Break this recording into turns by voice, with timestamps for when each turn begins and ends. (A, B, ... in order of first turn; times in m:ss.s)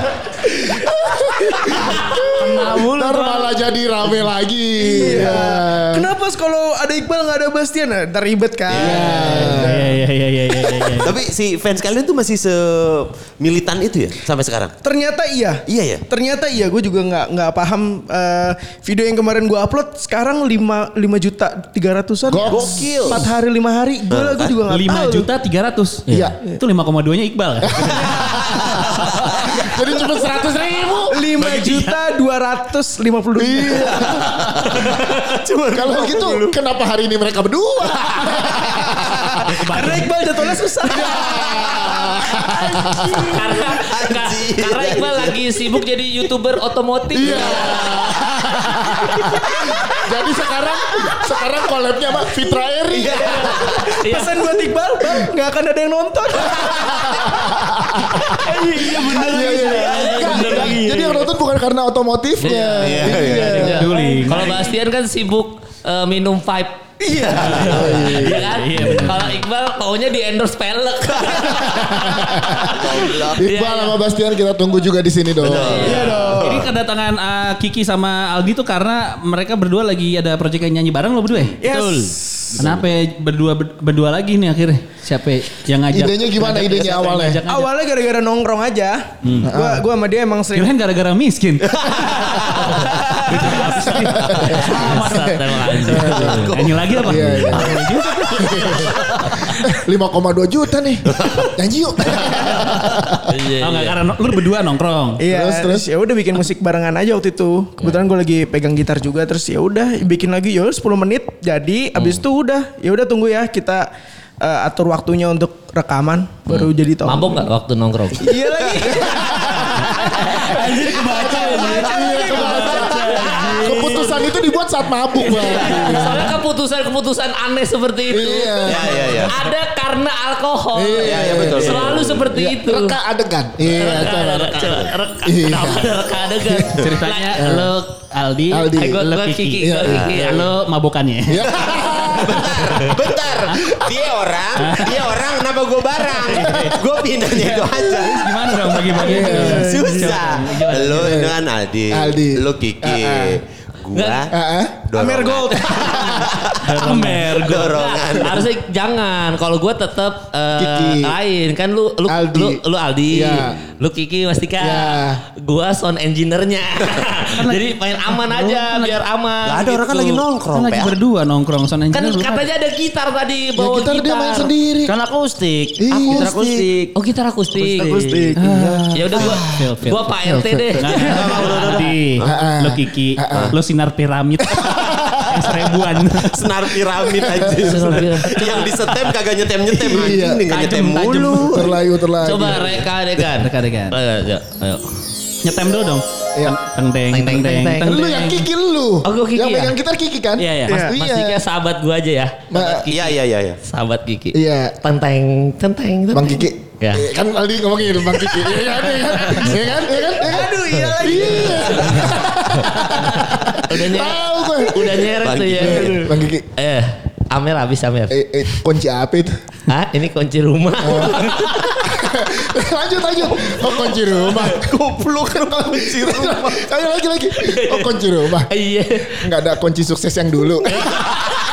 0:00.4-0:06.1 A
0:02.3-0:03.5 B
0:02.6-0:02.9 C
0:04.8-0:10.0 C
0:08.7-0:09.5 D
0:08.7-0:10.0 A
0:09.4-0:11.2 E
0:10.7-0:14.7 D
0:14.8-0:25.3 C
0:15.7-0:16.0 D
0:22.3-0:23.3 A
0:22.5-0:23.3 D
0:24.1-0:24.5 D
0:24.7-0:28.1 E
0:26.1-0:26.3 B
0:26.1-0:26.3 A
0:27.6-0:31.2 A
0:27.8-0:28.2 C
0:29.0-0:29.6 E
0:31.1-0:34.1 C
0:31.3-0:32.0 E
0:33.4-0:34.8 A
0:33.9-0:36.6 D
0:35.7-0:39.4 A
0:39.6-0:40.1 E
0:39.6-0:41.4 C
0:40.8-0:43.4 A
0:41.3-0:41.7 D
0:42.4-0:43.3 C
0:43.3-0:48.0 F
0:43.6-0:45.4 D
0:47.1-0:53.7 A
0:47.2-0:48.0 D
0:52.9-0:53.8 D
0:53.2-0:54.4 F
0:53.7-0:57.3 C
0:56.7-1:03.9 A
0:58.2-1:00.8 C
0:58.5-1:01.1 B
0:59.6-1:00.0 D
0:59.9-1:00.9 F
1:02.4-1:12.8 F
1:02.8-1:03.8 D
1:03.6-1:04.6 E
1:03.7-1:04.3 C
1:07.0-1:07.8 C
1:07.2-1:08.1 D
1:07.5-1:08.4 A
1:07.9-1:09.4 E
1:11.2-1:11.6 D
1:11.7-1:16.0 A
1:12.5-1:13.5 D
1:13.4-1:14.0 F
1:15.4-1:16.6 D
1:15.6-1:16.1 F
1:15.8-1:16.7 C
1:16.2-1:21.7 E
1:21.6-1:22.7 C
1:21.6-1:22.6 B
1:22.6-1:27.7 E
1:25.9-1:27.4 A
1:27.5-1:30.7 C
1:29.2-1:29.5 E
1:29.4-1:29.8 A
1:30.5-1:39.6 E
1:31.7-1:33.6 D
1:32.2-1:32.8 A
1:33.7-1:43.2 A
1:34.4-1:36.5 F
1:36.0-1:37.1 D
1:38.5-1:39.1 D
1:41.1-1:41.5 D
1:42.1-1:45.2 E
1:43.2-1:44.0 F
1:45.2-1:53.8 C
1:45.2-1:45.9 A
1:52.0-1:52.2 F
1:54.4-1:57.5 C
1:56.5-1:58.4 F
1:58.2-2:03.7 C
1:58.6-1:58.9 D
1:58.8-2:06.4 A
2:00.9-2:01.7 B
2:01.7-2:04.3 D
2:05.2-2:13.0 F
2:08.1-2:09.3 A
2:08.6-2:09.4 D
2:10.7-2:17.7 A
2:11.0-2:12.3 D
2:13.7-2:17.5 F
2:13.8-2:14.9 D
2:16.7-2:21.5 E
2:18.5-2:19.1 A
2:18.8-2:20.5 F
2:19.6-2:20.5 A
2:21.3-2:22.9 A
2:21.4-2:34.3 D
2:24.6-2:25.0 E
2:26.3-2:26.7 E
2:27.5-2:31.2 E
2:29.0-2:29.7 A
2:29.0-2:30.2 C
2:30.9-2:31.4 A
2:31.9-2:33.4 A
2:33.9-2:34.3 F
2:34.3-2:34.9 A
2:34.9-2:38.5 D
2:34.9-2:36.2 C
2:35.7-2:36.2 A
2:36.6-2:37.6 E
2:36.8-2:37.7 B
2:37.5-2:50.2 F
2:40.6-2:41.2 A
2:42.1-2:43.6 A
2:44.6-2:45.2 A
2:47.4-2:49.0 E
2:49.4-2:50.9 D
2:50.5-2:52.5 E
2:51.9-2:54.5 F
2:53.6-2:54.9 A
2:54.8-2:56.9 B
2:55.8-2:56.3 A
2:56.0-2:56.7 D
2:56.9-2:58.1 F
2:57.6-2:58.8 B
2:58.4-2:59.4 A
2:58.4-3:00.1 E
2:58.9-3:00.9 F
3:00.2-3:00.8 A
3:00.8-3:06.5 E
3:01.0-3:02.2 D
3:02.2-3:03.6 A
3:04.4-3:05.8 A
3:06.1-3:11.4 D
3:07.1-3:08.2 A
3:07.6-3:08.9 F
3:09.7-3:10.5 A
3:10.5-3:11.7 E
3:11.3-3:12.8 A
3:12.2-3:14.9 F
3:13.3-3:14.0 E
3:15.4-3:18.4 E
3:17.1-3:18.0 F
3:17.8-3:21.4 A
3:19.0-3:19.7 F
3:20.4-3:20.8 E
3:20.7-3:21.0 C
3:20.8-3:27.0 F
3:22.5-3:22.8 A
3:22.6-3:23.6 D
3:24.3-3:24.8 A
3:26.1-3:36.4 A
3:29.2-3:29.5 F
3:30.2-3:32.2 C
3:30.7-3:38.2 F
3:35.1-3:36.1 D
3:38.1-3:39.3 A
3:39.7-3:41.9 F
3:40.8-3:48.5 A
3:43.5-3:46.7 D
3:47.4-3:49.3 F
3:49.1-3:51.1 A